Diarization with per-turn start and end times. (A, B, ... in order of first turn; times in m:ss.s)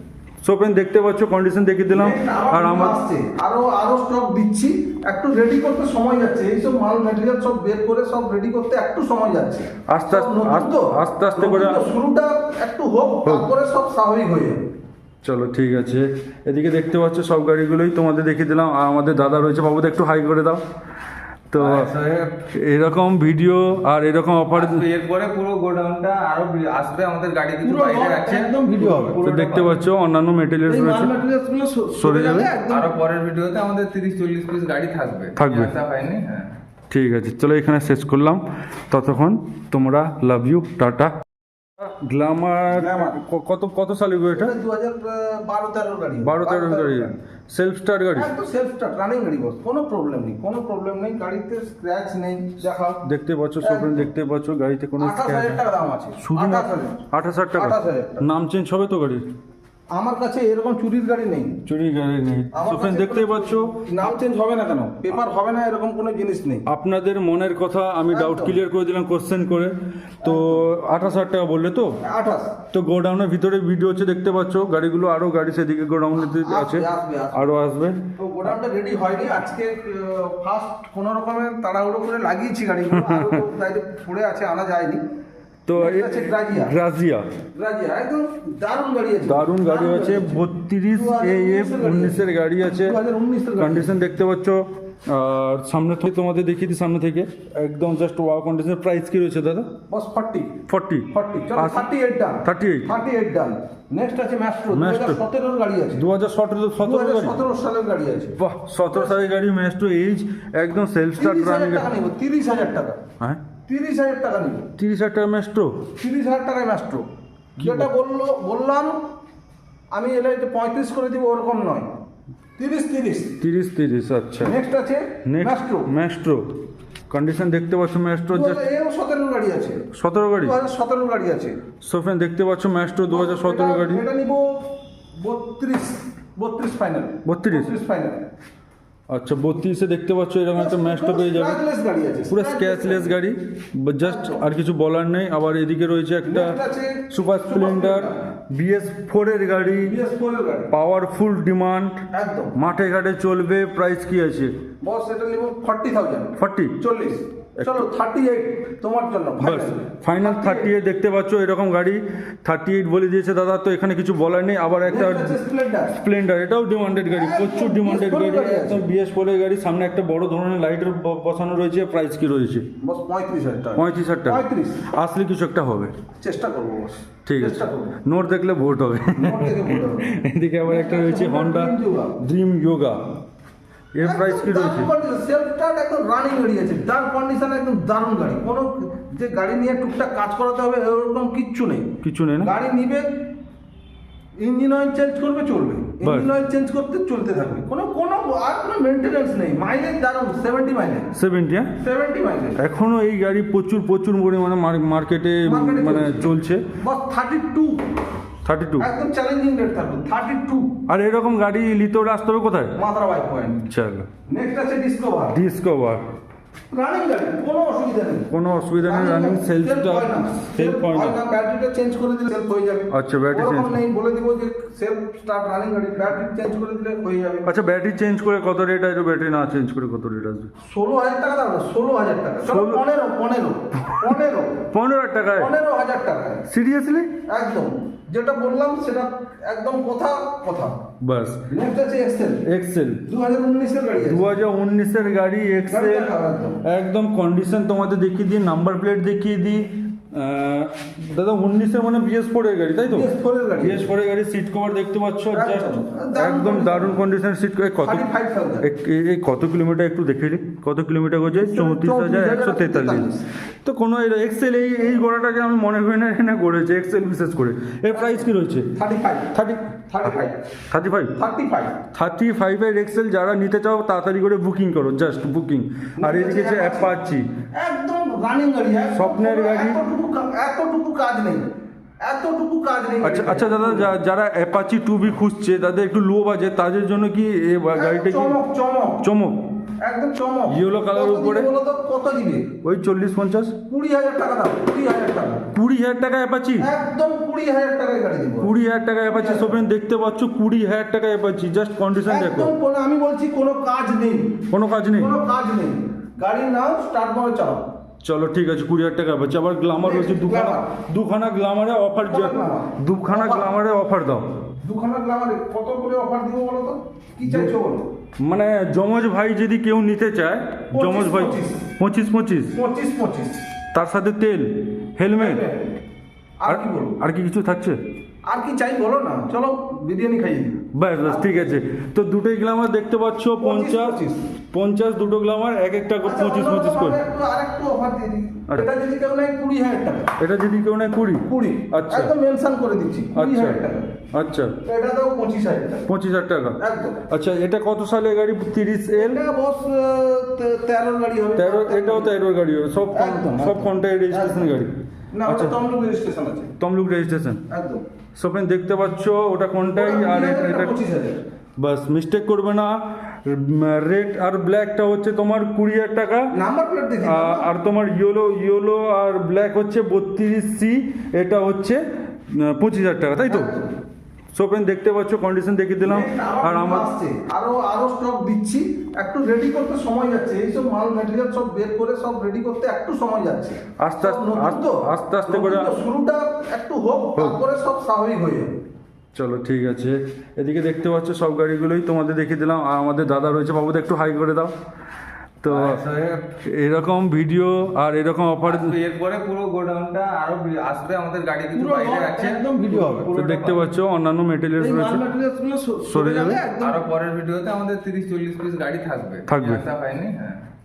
0:00.4-0:03.0 A
0:01.9-0:14.6 B
0:09.9-0:11.8 A
0:15.2-0:20.6 A
0:21.5-0:21.9 A
0:21.6-0:22.4 C
0:22.5-0:24.8 A
0:24.6-0:29.8 C
0:27.6-0:29.2 B
0:29.2-0:31.1 A
0:30.7-0:33.0 B
0:32.0-0:32.5 A
0:32.7-0:36.5 C
0:35.4-0:35.7 A
0:36.9-0:41.2 A
0:41.8-0:44.5 A
0:42.7-0:43.2 B
0:44.3-0:47.1 B
0:46.2-0:48.3 A
0:48.1-0:53.0 B
0:53.0-0:55.6 A
0:53.6-0:54.1 B
0:55.0-0:58.2 B
0:56.2-0:59.2 A
0:59.9-1:01.6 B
1:01.6-1:03.8 A
1:02.5-1:06.6 B
1:06.7-1:12.0 A
1:08.1-1:08.6 B
1:10.2-1:10.7 B
1:12.0-1:12.6 B
1:12.7-1:18.1 A
1:16.2-1:17.5 B
1:18.2-1:25.1 B
1:22.9-1:23.4 A
1:25.7-1:27.3 A
1:25.8-1:26.8 B
1:27.5-1:34.0 B
1:29.3-1:33.0 A
1:33.6-1:39.8 A
1:39.9-1:46.1 B
1:40.7-1:41.9 A
1:42.4-1:43.0 A
1:44.7-1:45.2 A
1:46.0-1:47.4 A
1:46.8-1:48.4 B
1:48.4-1:51.9 A
1:48.9-1:49.3 B
1:51.2-1:53.0 B
1:53.7-1:54.7 B
1:54.8-1:55.9 A
1:56.0-1:59.0 B
1:57.6-1:57.9 A
1:59.9-2:01.9 B
2:02.6-2:03.4 B
2:03.4-2:04.6 A
2:04.4-2:05.9 B
2:05.2-2:06.6 A
2:07.1-2:08.6 A
2:08.3-2:09.9 B
2:09.9-2:10.6 A
2:10.4-2:11.6 B
2:11.8-2:14.0 A
2:13.1-2:18.3 B
2:17.2-2:17.7 A
2:19.1-2:21.6 A
2:20.6-2:23.2 B
2:22.3-2:30.0 A
2:24.0-2:24.4 B
2:26.2-2:28.2 B
2:29.8-2:30.7 B
2:30.7-2:34.6 A
2:32.1-2:32.6 B
2:34.8-2:40.7 B
2:36.4-2:36.8 A
2:37.6-2:37.8 A
2:39.4-2:52.7 A
2:44.9-2:46.0 B
2:47.1-2:48.9 B
2:52.8-2:54.9 B
2:53.8-2:55.9 A
2:56.2-2:58.0 B
2:57.2-3:03.1 A
2:59.2-3:02.2 B
3:03.9-3:04.9 A
3:04.0-3:13.2 B
3:12.0-3:12.5 A
3:14.4-3:21.1 B
3:16.0-3:16.3 A
3:21.1-3:21.7 A
3:21.8-3:22.6 B
3:22.6-3:26.7 A
3:25.4-3:27.9 B
3:28.4-3:28.9 A
3:28.8-3:30.7 B
3:30.9-3:32.8 A
3:32.8-3:33.6 B
3:33.6-3:34.1 A
3:34.3-3:35.4 B
3:35.3-3:36.0 A
3:36.7-3:38.3 B
3:38.3-3:41.2 A
3:38.8-3:47.5 B
3:42.9-3:43.8 A
3:47.4-3:50.5 A
3:50.6-3:54.7 B
3:52.5-3:52.8 A
3:54.7-3:55.5 A
3:55.4-3:56.5 B
3:56.5-3:57.2 A
3:57.2-4:00.8 B
4:01.0-4:01.4 A
4:01.5-4:02.4 B
4:02.4-4:03.1 A
4:03.1-4:04.3 B
4:04.0-4:06.1 A
4:05.7-4:06.6 B
4:06.6-4:18.1 A
4:12.9-4:13.8 B
4:15.3-4:17.0 B
4:17.8-4:18.7 B
4:18.6-4:28.8 A
4:21.3-4:23.2 B
4:27.9-4:29.4 B
4:29.3-4:29.8 A
4:29.9-4:30.5 B
4:30.7-4:31.2 A
4:31.2-4:31.8 B
4:31.9-4:37.4 A
4:36.0-4:36.9 B
4:37.5-4:41.5 B
4:38.9-4:39.8 A
4:42.0-4:43.9 B
4:43.0-4:48.4 A
4:47.8-4:49.0 B
4:49.0-4:49.6 A
4:49.8-4:52.5 B
4:50.5-4:51.5 A
4:52.6-4:53.6 A
4:53.7-4:55.5 B
4:55.5-4:56.7 A
4:56.6-4:58.5 B
4:58.4-5:02.5 A
4:59.0-4:59.6 B
5:02.1-5:07.7 B
5:04.5-5:05.1 A
5:08.0-5:14.4 A
5:09.8-5:10.7 B
5:12.1-5:13.5 B
5:14.6-5:17.9 B
5:18.2-5:22.6 A
5:20.7-5:21.6 B
5:22.6-5:23.5 B
5:23.7-5:25.4 A
5:25.2-5:25.8 B
5:26.4-5:27.0 B
5:26.5-5:27.8 A
5:28.3-5:31.5 B
5:30.7-5:34.0 A
5:33.4-5:34.2 B
5:34.5-5:37.0 A
5:36.0-5:40.1 B
5:40.2-5:42.1 A
5:41.3-5:44.0 B
5:43.1-5:44.6 A
5:44.6-5:45.9 B
5:45.9-5:49.2 A
5:46.6-5:47.1 B
5:49.0-5:52.1 B
5:51.4-5:54.7 A
5:52.9-5:54.5 B
5:55.1-5:56.5 B
5:55.3-5:55.6 A
5:56.6-5:57.4 A
5:57.5-5:57.9 B
5:58.1-6:00.8 A
5:59.8-6:01.2 B
6:01.6-6:06.3 A
6:06.3-6:07.5 B
6:07.0-6:13.6 A
6:13.3-6:13.7 B
6:14.3-6:16.9 A
6:15.8-6:28.6 B
6:23.8-6:25.7 A
6:29.1-6:34.5 A
6:35.4-6:35.8 A
6:35.5-6:36.3 C
6:36.4-6:38.8 A
6:38.4-6:43.7 C
6:41.5-6:43.1 B
6:43.1-6:45.0 A
6:44.6-6:46.8 B
6:45.9-6:46.4 A
6:46.6-6:50.4 C
6:49.3-6:49.6 A